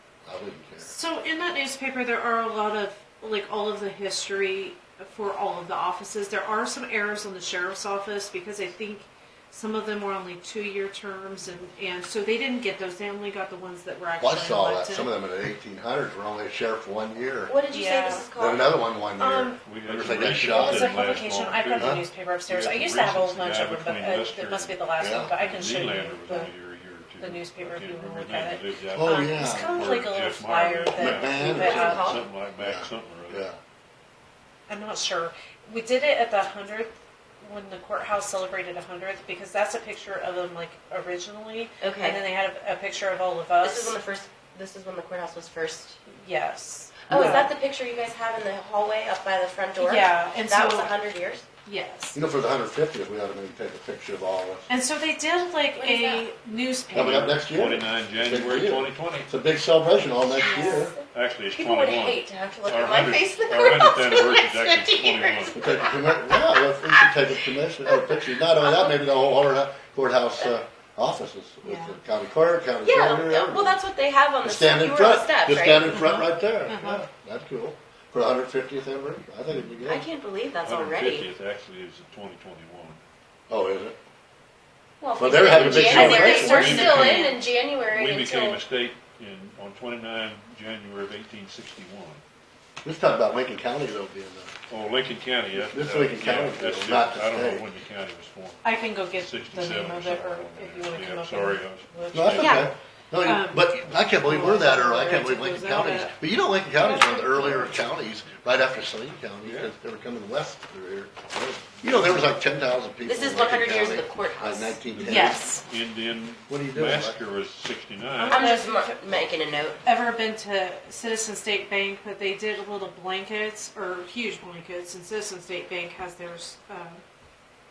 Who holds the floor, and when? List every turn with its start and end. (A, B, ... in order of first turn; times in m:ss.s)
0:00.3-0:00.9 A
0:00.8-0:15.1 B
0:14.2-0:17.6 A
0:17.5-0:18.8 C
0:17.7-0:18.3 B
0:18.4-0:21.1 A
0:19.2-0:19.6 B
0:19.6-0:33.5 D
0:20.4-0:26.5 B
0:25.0-0:25.3 A
0:27.2-0:32.0 B
0:28.9-0:29.9 A
0:31.0-0:33.6 A
0:31.4-0:32.3 C
0:34.7-0:44.0 B
0:41.8-0:42.2 C
0:43.6-0:46.0 C
0:46.1-0:47.5 B
0:47.1-0:51.5 C
0:49.8-0:50.9 B
0:51.6-0:52.2 B
0:52.2-0:54.7 A
0:54.7-0:57.3 B
0:55.8-0:56.3 C
0:56.9-1:01.0 A
0:56.9-0:59.3 D
1:00.4-1:09.0 C
1:00.4-1:00.9 B
1:01.1-1:05.7 D
1:05.6-1:13.8 A
1:11.6-1:12.0 B
1:12.8-1:16.1 C
1:14.4-1:20.0 A
1:15.9-1:17.0 B
1:19.9-1:21.3 C
1:20.6-1:23.0 D
1:23.5-1:24.0 A
1:25.0-1:28.6 C
1:25.2-1:26.7 A
1:25.5-1:32.2 D
1:25.6-1:27.4 B
1:32.8-1:34.5 A
1:34.7-1:38.7 D
1:35.5-1:37.7 A
1:38.6-1:42.7 B
1:39.2-1:42.7 D
1:42.1-1:55.4 A
1:42.4-1:42.7 C
1:43.2-1:46.2 B
1:46.8-1:47.7 B
1:49.4-1:49.7 D
1:51.9-1:52.2 D
1:53.0-1:54.8 C
1:55.0-1:58.4 D
1:55.0-1:55.6 B
1:56.5-1:57.2 A
1:58.2-1:58.9 B
1:58.3-1:59.8 C
1:59.8-2:07.0 B